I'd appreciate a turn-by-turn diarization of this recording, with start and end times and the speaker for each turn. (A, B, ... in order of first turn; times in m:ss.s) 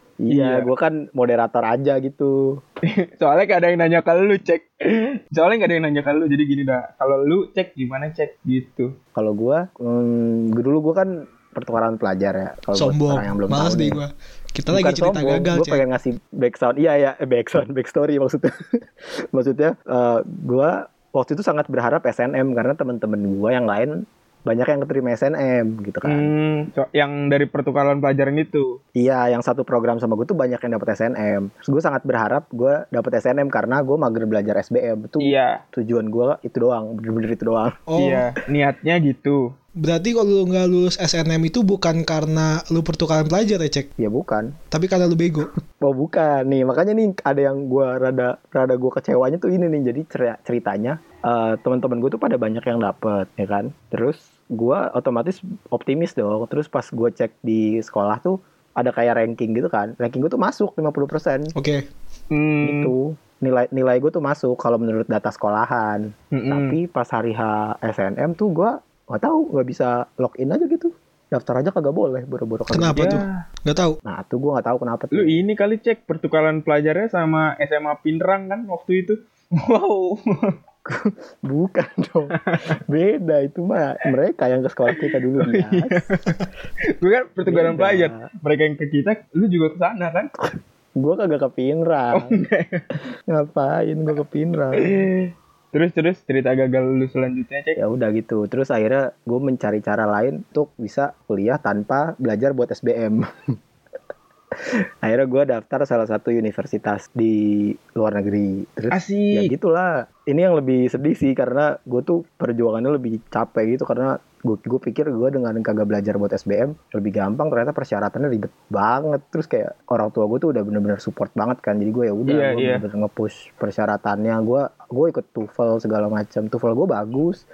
0:00.2-0:02.6 A
0:00.3-0:00.7 B
0:02.8-0:08.9 B
0:09.2-0:14.0 A
0:12.8-0:15.8 C
0:14.7-0:23.9 A
0:24.5-0:26.3 A
0:26.0-0:28.8 B
0:29.0-0:37.8 A
0:35.2-0:35.6 B
0:37.9-0:38.2 C
0:38.0-0:39.4 B
0:39.8-0:43.9 C
0:44.0-0:44.5 A
0:44.7-0:45.5 C
0:45.8-1:01.5 A
1:01.6-1:01.8 C
1:02.3-1:02.9 B
1:02.6-1:13.2 A
1:06.3-1:06.8 B
1:12.7-1:14.0 C
1:12.9-1:13.4 B
1:14.1-1:15.4 A
1:15.1-1:20.6 B
1:20.9-1:26.1 A
1:22.4-1:22.8 B
1:24.9-1:26.5 B
1:27.0-1:30.3 B
1:27.5-1:28.3 A
1:31.0-1:32.4 A
1:32.1-1:32.9 B
1:33.3-1:34.9 A
1:34.8-1:37.8 B
1:37.8-1:43.5 A
1:44.6-2:07.4 A
1:48.9-1:49.5 B
2:02.3-2:02.8 B